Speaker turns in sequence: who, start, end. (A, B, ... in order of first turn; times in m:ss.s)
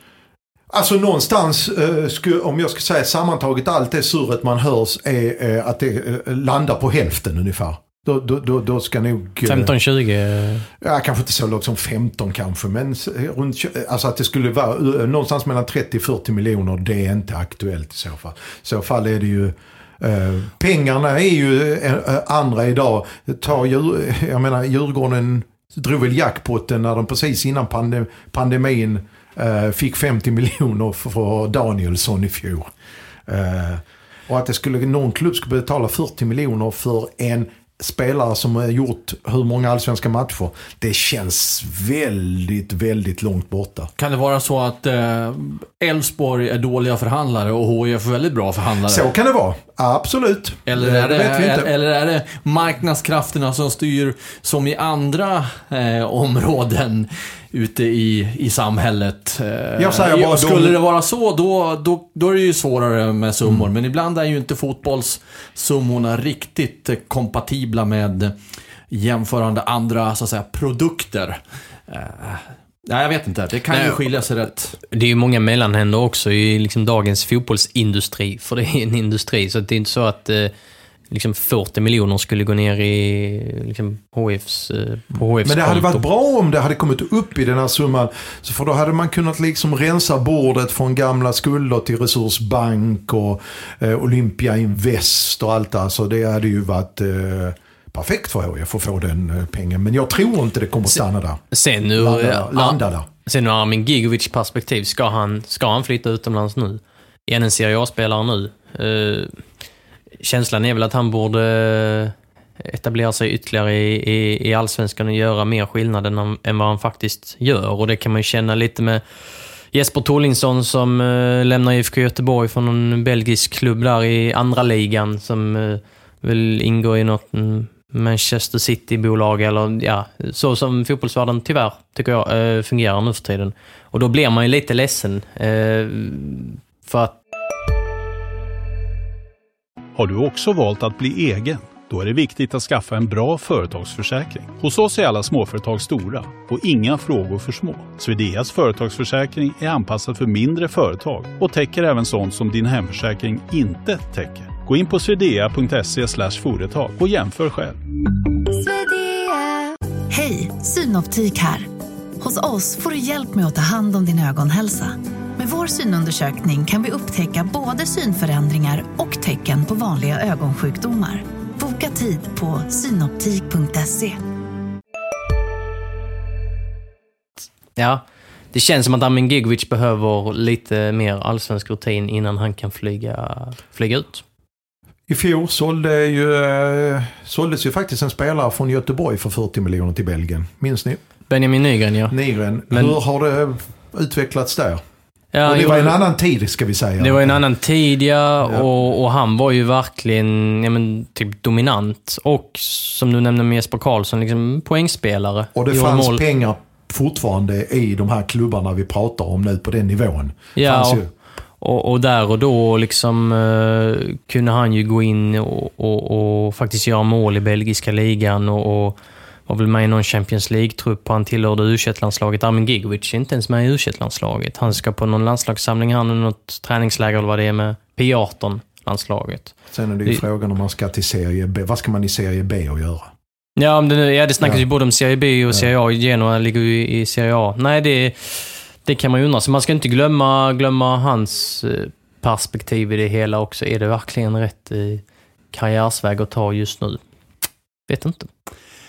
0:00.7-0:09.7 A
0:09.4-0:10.7 B
0:10.8-0:32.7 A
0:33.3-0:43.9 A
0:44.0-0:49.1 C
0:48.8-0:51.7 A
0:50.7-1:08.3 C
0:59.8-1:00.8 A
1:08.9-1:14.8 C
1:14.9-1:20.5 B
1:21.1-1:26.0 B
1:25.4-1:41.4 A
1:41.5-1:49.4 B
1:42.0-1:43.1 A
1:50.2-1:59.0 B
1:59.7-2:17.2 B
2:20.0-2:37.8 D
2:38.5-2:41.7 E
2:42.2-2:54.2 E
2:57.8-3:04.2 B
3:05.1-3:11.0 A
3:11.3-3:12.2 B
3:12.1-3:14.8 A
3:12.7-3:13.0 B
3:15.3-3:16.0 B
3:15.4-3:17.4 A
3:17.0-3:26.2 B
3:25.6-3:31.1 A
3:30.6-3:31.0 B
3:31.6-3:50.2 B
3:49.7-3:53.1 A
3:53.6-4:07.0 B
4:07.9-4:08.3 B